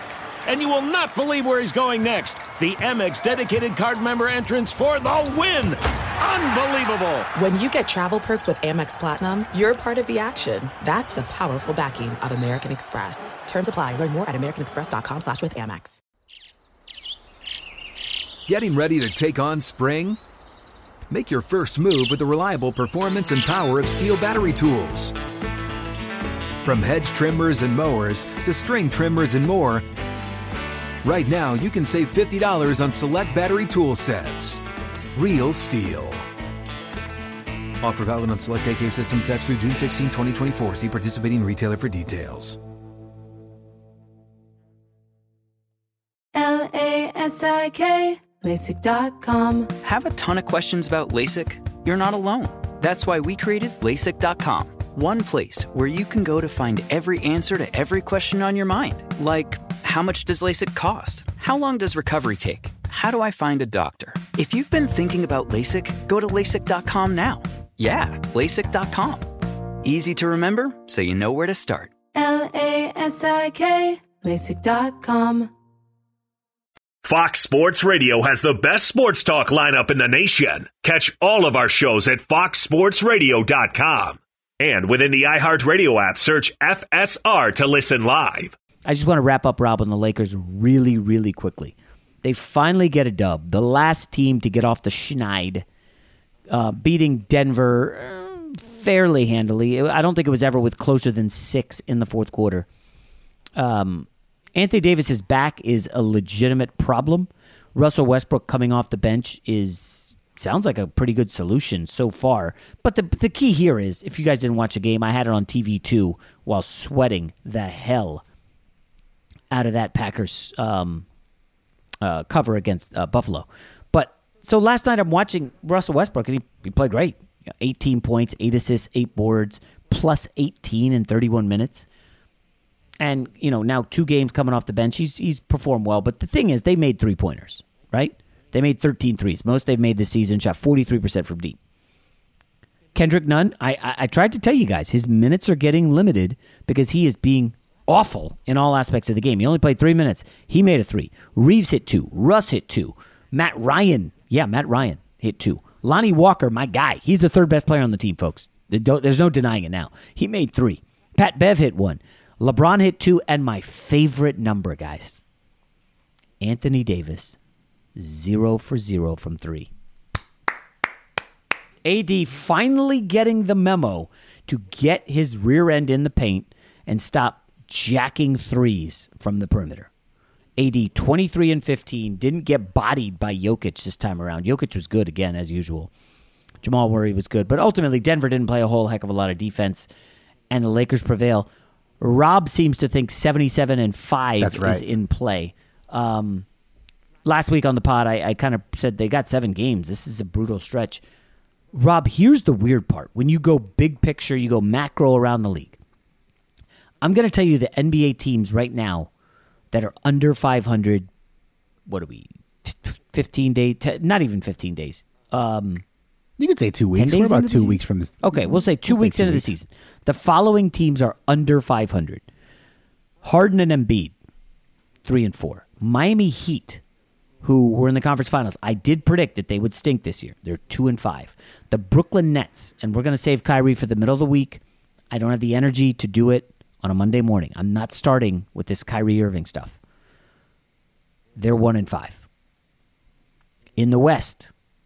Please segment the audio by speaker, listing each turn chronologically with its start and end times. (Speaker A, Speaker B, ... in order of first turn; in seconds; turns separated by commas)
Speaker A: 0.5-7.3, Speaker B: 7.3-16.0, Speaker C: 18.5-20.2, Speaker C: 21.1-25.1, Speaker C: 26.6-29.9, Speaker C: 31.0-34.6, Speaker C: 35.1-36.3, Speaker C: 37.8-42.6, Speaker D: 46.3-49.8, Speaker E: 49.8-71.9, Speaker D: 72.2-75.5, Speaker F: 77.0-88.5, Speaker G: 88.9-95.7, Speaker G: 96.5-102.7, Speaker G: 103.6-118.2, Speaker G: 119.5-121.1, Speaker G: 122.0-131.9, Speaker G: 133.0-141.6, Speaker G: 142.9-165.2, Speaker G: 166.4-167.4, Speaker G: 168.0-169.7, Speaker G: 171.8-179.9, Speaker G: 180.6-185.9, Speaker G: 186.6-189.9, Speaker G: 190.5-191.5, Speaker G: 192.0-196.5, Speaker H: 194.4-194.8, Speaker G: 197.2-201.0, Speaker G: 201.7-205.8, Speaker G: 207.0-209.1, Speaker G: 209.7-211.1, Speaker G: 211.9-215.8, Speaker H: 216.4-219.5, Speaker G: 216.9-222.2, Speaker G: 223.2-224.1, Speaker G: 225.0-226.8, Speaker G: 227.4-239.8, Speaker G: 241.4-242.2, Speaker G: 243.8-244.5